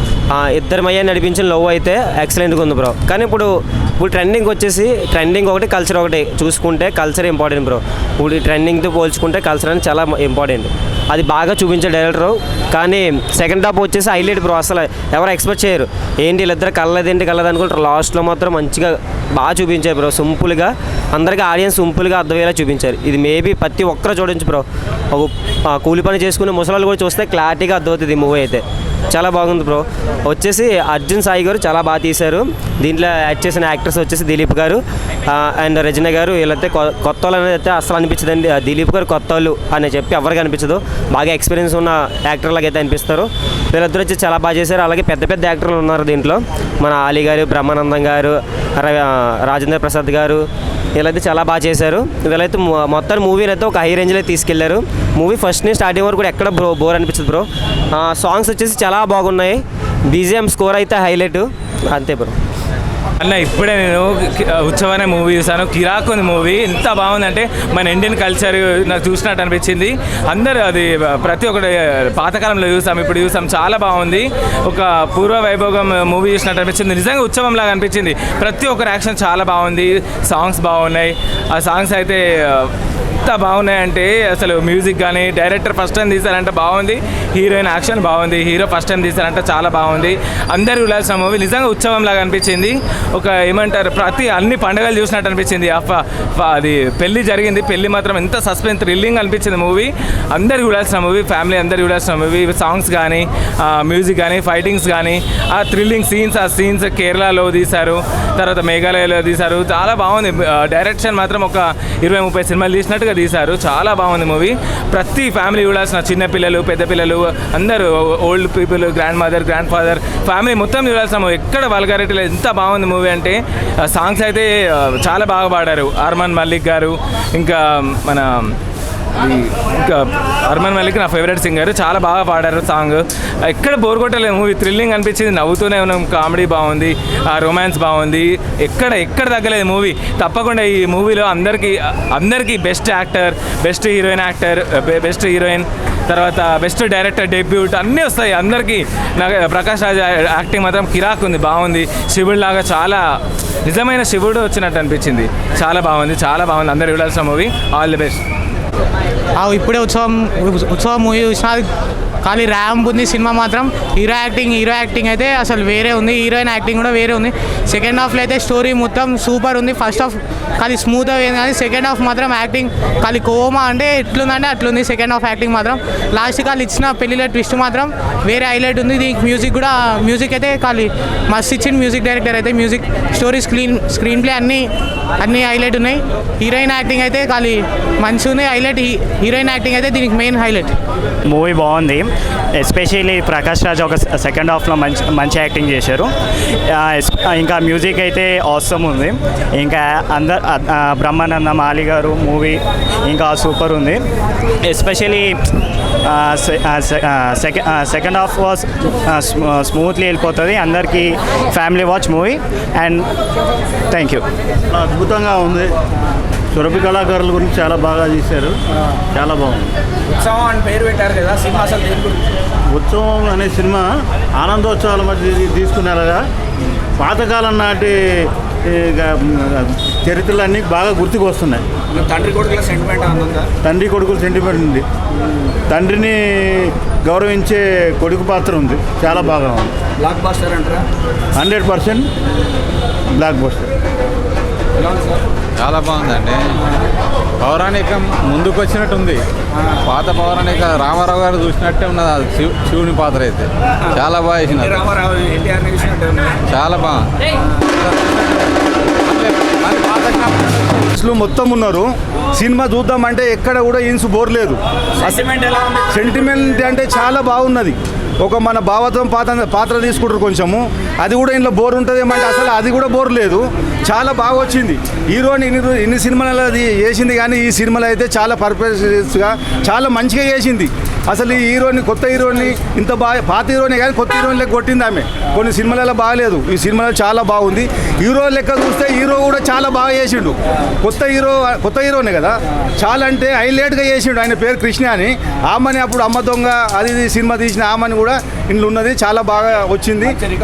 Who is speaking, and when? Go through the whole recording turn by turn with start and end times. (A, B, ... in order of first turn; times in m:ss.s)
0:00.3-0:50.4 A
0:51.0-1:02.3 A
1:03.2-1:22.7 B
1:23.3-2:08.5 B
2:09.2-2:33.0 B
2:33.7-2:38.2 B
2:39.4-2:41.7 C
2:42.2-3:10.7 C
3:11.3-3:16.1 D
3:16.7-3:24.0 D
3:24.7-3:25.4 D
3:26.1-3:33.1 D
3:33.9-3:34.2 D
3:34.7-3:35.7 E
3:36.6-3:38.5 E
3:39.2-3:39.7 E
3:41.2-3:41.6 F
3:42.8-3:43.9 E
3:44.4-3:46.2 E
3:47.0-3:47.9 E
3:48.7-3:51.6 E
3:52.2-3:53.3 F
3:53.6-3:54.8 E
3:55.7-3:59.7 E
4:01.4-4:02.1 E
4:03.2-4:03.7 E
4:05.6-4:06.5 G
4:07.4-4:09.2 G
4:09.8-4:14.8 G
4:14.7-4:16.3 F
4:16.5-4:17.0 G
4:17.8-4:18.4 G
4:19.0-4:20.4 G
4:21.0-4:25.2 H
4:25.9-5:00.2 H